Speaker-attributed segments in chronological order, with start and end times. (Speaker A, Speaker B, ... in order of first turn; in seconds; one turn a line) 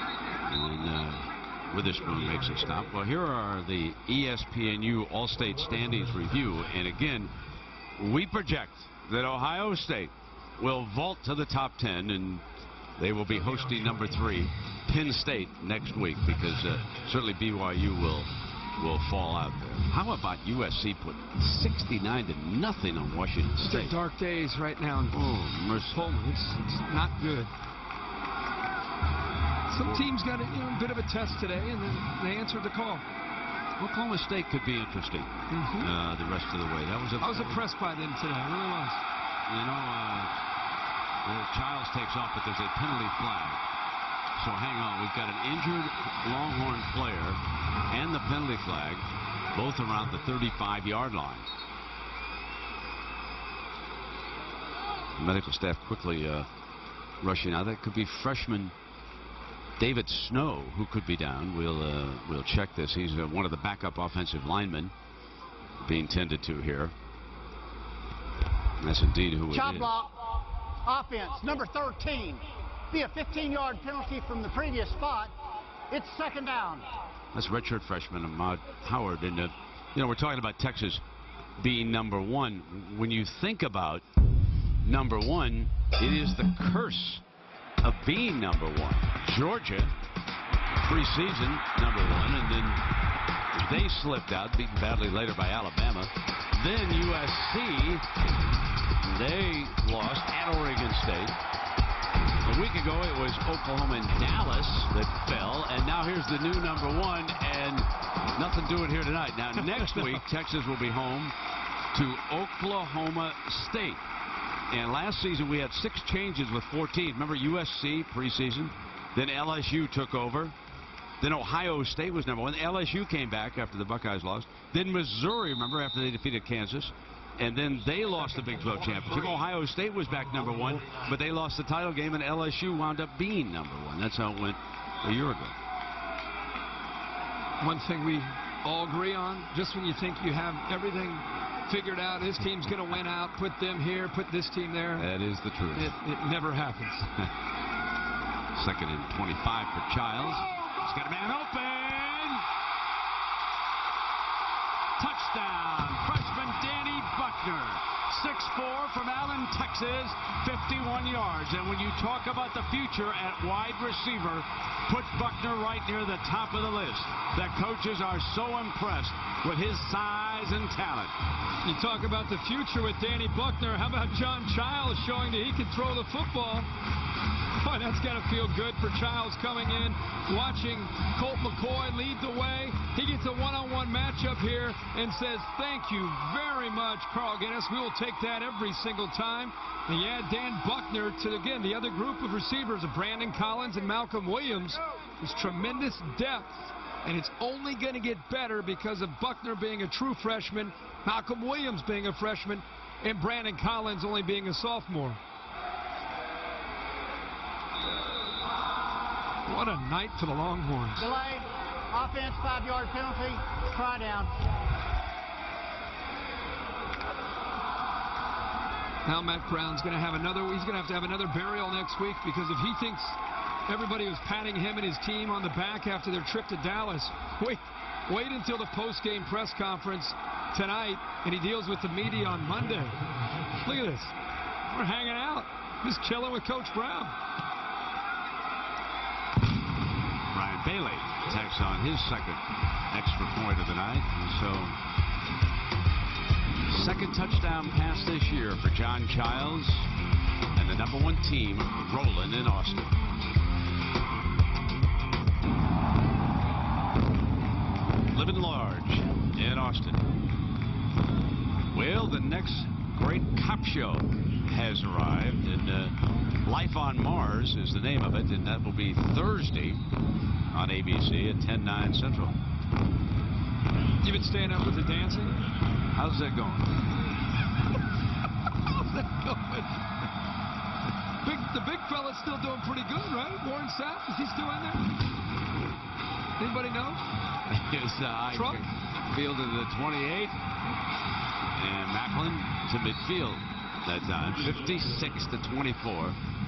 Speaker A: 0.5-7.3
Speaker A: 8.0-12.4
Speaker A: 13.0-23.9
Speaker B: 23.6-27.5
Speaker A: 25.1-26.0
Speaker B: 29.7-33.0
Speaker A: 29.8-30.1
Speaker A: 33.8-37.6
Speaker B: 35.5-35.9
Speaker B: 37.2-39.0
Speaker A: 39.5-40.3
Speaker A: 41.2-43.6
Speaker A: 44.4-51.5
Speaker A: 55.2-56.5
Speaker A: 57.2-58.7
Speaker A: 59.8-64.9
Speaker A: 65.8-66.9
Speaker A: 68.8-69.9
Speaker C: 69.5-70.2
Speaker C: 70.8-75.3
Speaker C: 75.9-76.9
Speaker A: 77.3-81.0
Speaker A: 81.6-84.0
Speaker A: 84.8-87.2
Speaker A: 87.8-89.9
Speaker A: 90.8-92.8
Speaker A: 93.5-98.0
Speaker A: 99.0-101.4
Speaker A: 102.4-111.3
Speaker A: 111.9-114.0
Speaker A: 114.7-120.6
Speaker A: 121.2-135.5
Speaker B: 137.6-145.1
Speaker A: 145.0-145.9
Speaker B: 145.7-147.1
Speaker A: 148.6-152.5
Speaker A: 155.0-171.1
Speaker B: 171.6-176.7
Speaker B: 177.5-205.2
Speaker B: 209.5-211.1
Speaker C: 211.0-214.3
Speaker B: 219.1-233.0
Speaker B: 233.6-234.2
Speaker B: 234.7-237.2
Speaker A: 240.3-244.8
Speaker A: 246.7-249.9
Speaker A: 250.6-253.0
Speaker A: 258.1-260.1
Speaker A: 261.7-269.8
Speaker A: 270.5-272.4
Speaker B: 274.0-275.5
Speaker A: 275.9-276.8
Speaker B: 278.6-279.9
Speaker B: 281.2-284.9
Speaker B: 286.4-287.0
Speaker A: 287.5-290.4
Speaker B: 288.3-288.6
Speaker A: 291.6-296.2